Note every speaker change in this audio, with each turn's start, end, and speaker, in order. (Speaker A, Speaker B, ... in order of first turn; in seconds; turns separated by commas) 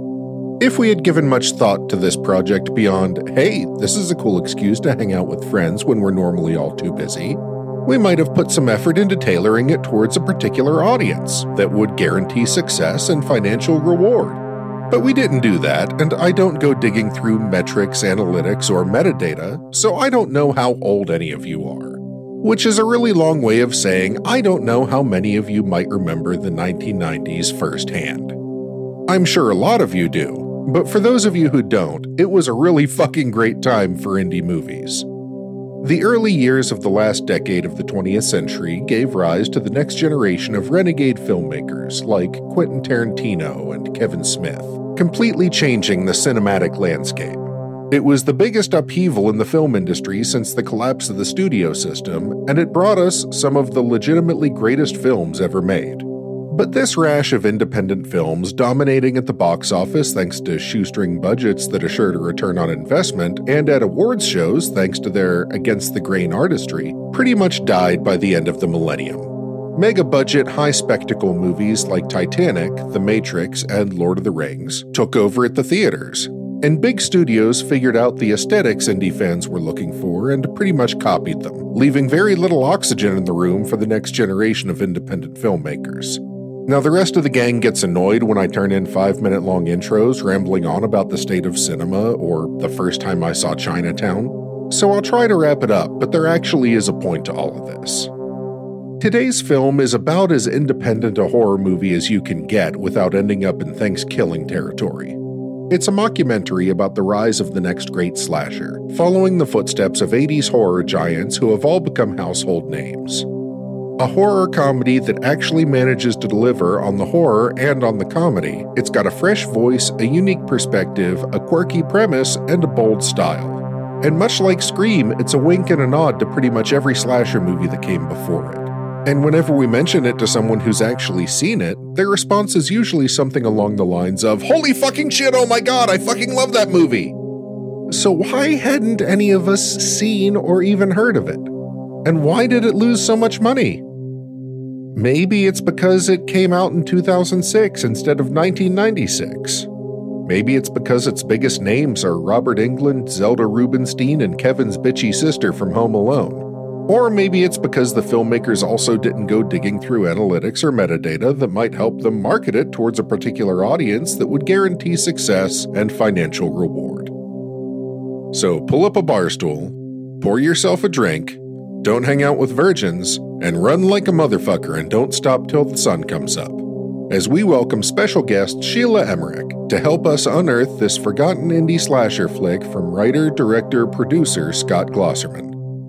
Speaker A: 0.6-28.4, Speaker A: 29.1-35.1, Speaker A: 35.8-98.1, Speaker A: 99.0-113.3, Speaker A: 114.0-137.2, Speaker A: 137.9-141.5, Speaker A: 142.0-143.8, Speaker A: 144.9-149.7, Speaker A: 150.2-167.1, Speaker A: 168.3-185.6